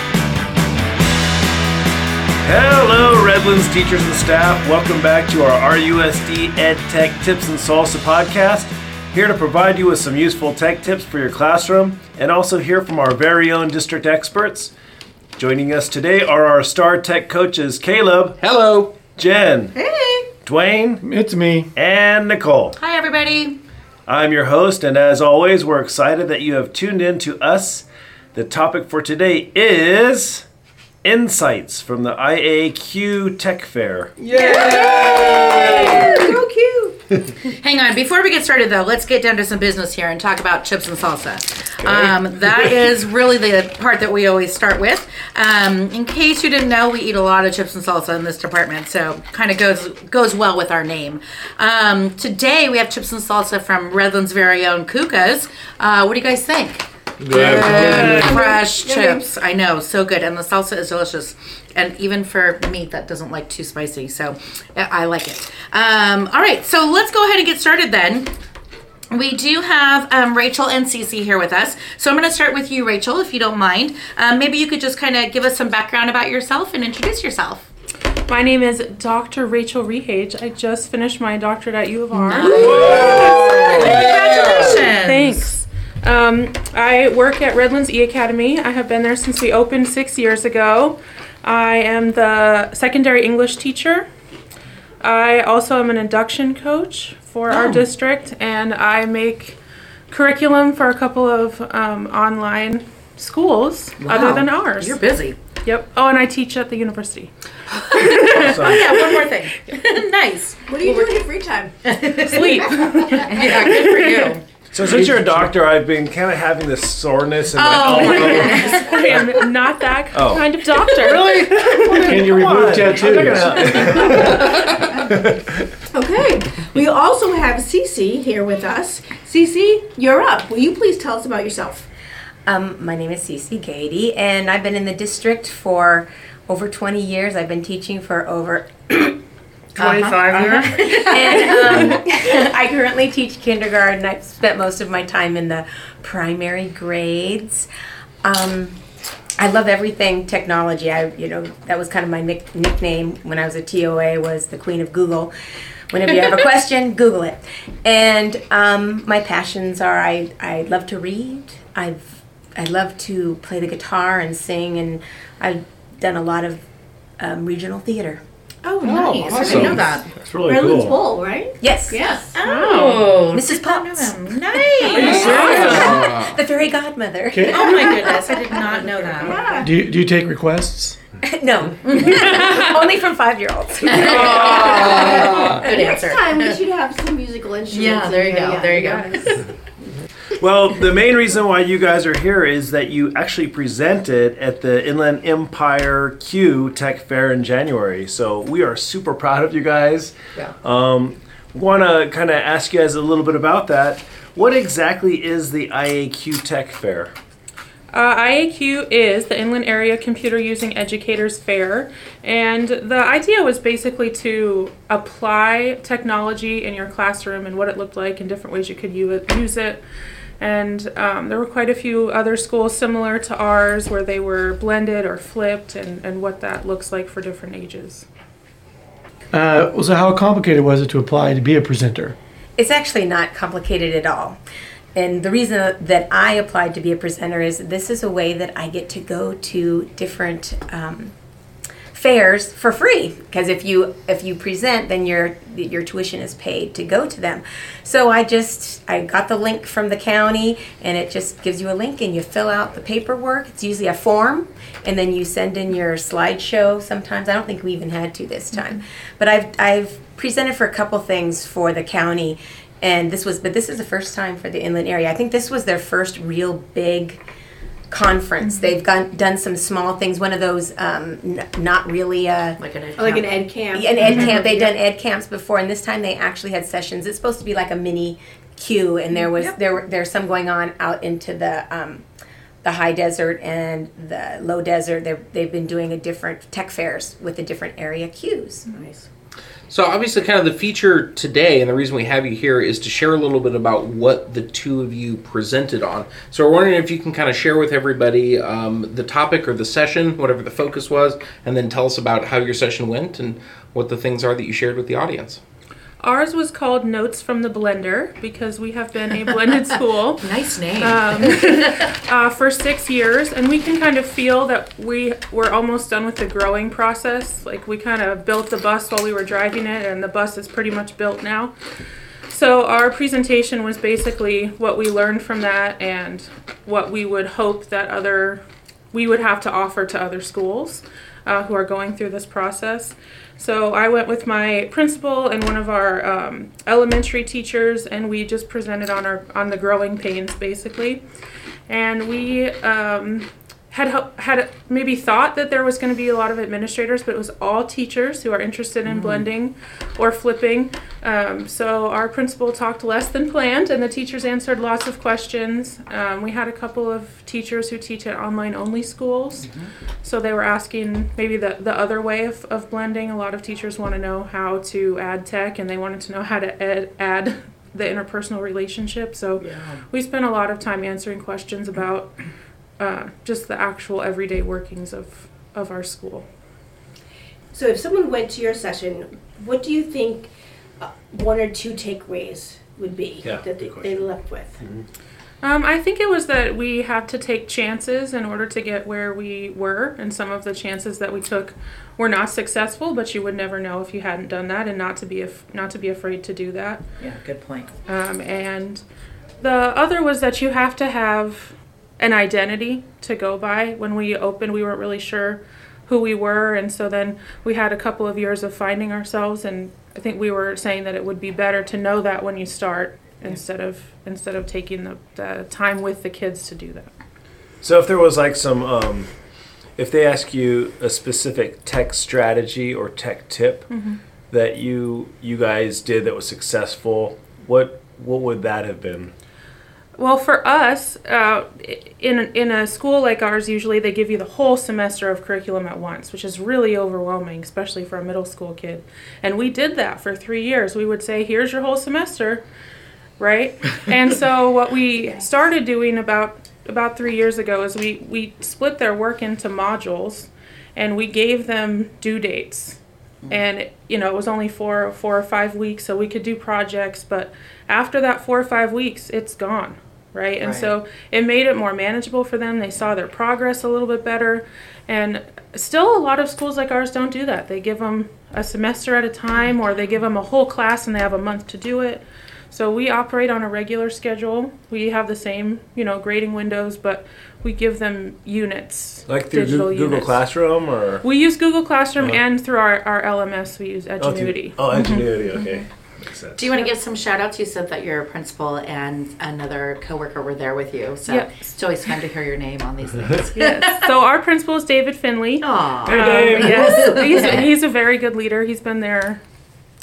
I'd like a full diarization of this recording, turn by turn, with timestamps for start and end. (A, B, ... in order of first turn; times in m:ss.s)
0:02.4-0:14.7 A
0:15.4-0:18.4 A
0:18.4-0:19.0 B
0:19.2-0:19.8 A
0:19.7-0:20.3 C
0:20.4-0:21.0 A
0:21.0-0:21.7 D
0:21.8-0:22.8 A
0:22.8-0:23.6 E
0:24.1-0:30.4 A
0:31.0-0:34.2 A
0:34.2-0:37.0 C
0:34.4-0:34.9 B
0:34.4-0:36.3 E
0:37.5-1:08.3 E
0:57.2-0:58.3 A
0:57.7-0:59.3 C
0:57.8-0:58.3 F
1:09.1-1:17.7 E
1:18.3-1:23.1 F
1:22.2-1:25.4 E
1:22.4-1:24.1 A
1:23.8-1:24.6 B
1:24.7-1:34.1 F
1:35.0-1:39.6 F
1:37.5-1:37.9 E
1:40.1-1:45.0 F
1:44.0-1:45.4 E
1:45.6-1:47.3 F
1:47.7-1:51.2 E
1:47.8-1:48.9 F
1:48.3-1:48.9 A
1:50.7-1:53.5 C
1:51.8-1:54.4 E
1:52.3-1:54.4 F
1:54.7-1:59.3 A
1:54.8-1:55.5 D
1:57.5-1:59.2 E
1:58.0-2:02.4 F
2:00.1-2:05.4 A
2:01.1-2:04.5 D
2:03.2-2:04.2 F
2:05.9-2:11.9 C
2:12.4-2:19.2 G
2:19.8-2:22.0 E
2:19.8-2:20.1 C
2:20.6-2:27.7 G
2:28.2-2:28.8 G
2:29.4-2:35.3 G
2:35.9-2:46.6 G
2:47.2-2:48.2 G
2:48.6-2:52.4 C
2:48.8-2:50.1 E
2:49.4-2:49.7 B
2:49.5-2:51.0 A
2:51.6-2:52.0 G
2:52.1-2:55.4 E
2:52.4-2:53.1 F
2:53.3-2:58.2 G
2:55.0-2:56.0 D
2:55.0-2:56.4 B
2:57.3-2:57.9 D
2:57.5-2:59.6 E
2:58.5-2:59.7 C
2:59.6-3:01.0 D
3:01.2-3:05.2 G
3:01.9-3:02.7 E
3:03.8-3:06.6 E
3:04.1-3:09.4 C
3:07.7-3:09.4 E
3:08.8-3:09.3 F
3:10.4-3:27.1 A
3:27.9-3:39.8 F
3:40.4-3:48.0 F
3:49.3-3:52.2 D
3:52.6-3:54.4 G
3:55.0-4:01.1 G
4:01.9-4:27.2 G
4:27.9-4:32.6 G
4:32.6-4:33.4 E
4:33.0-4:34.6 C
4:33.7-4:42.0 G
4:34.0-4:34.6 E
4:42.6-4:48.6 G
4:48.7-4:49.0 E
4:49.7-5:05.4 B
5:06.0-5:10.2 F
5:10.2-5:11.6 E
5:10.8-5:21.5 F
5:22.3-5:41.0 F
5:41.7-5:59.5 F
5:48.9-5:49.2 E
6:00.0-6:12.2 F
6:09.4-6:09.8 E
6:12.8-6:16.2 F
6:17.5-6:24.6 C
6:23.2-6:24.1 A
6:25.4-6:36.8 F
6:37.0-6:37.7 E
6:37.9-6:38.8 F
6:39.4-6:56.9 F
6:57.6-6:59.1 A
6:59.8-7:03.7 A
7:03.7-7:04.0 F
7:04.3-7:09.1 A
7:10.0-7:22.4 F
7:23.2-7:32.8 F
7:33.3-8:00.2 F
7:40.4-7:40.7 E
7:59.1-8:01.0 A
8:01.0-8:05.4 F
8:04.0-8:06.5 A
8:06.4-8:13.9 E
8:13.3-8:19.2 F
8:15.4-8:17.5 E
8:15.8-8:17.0 A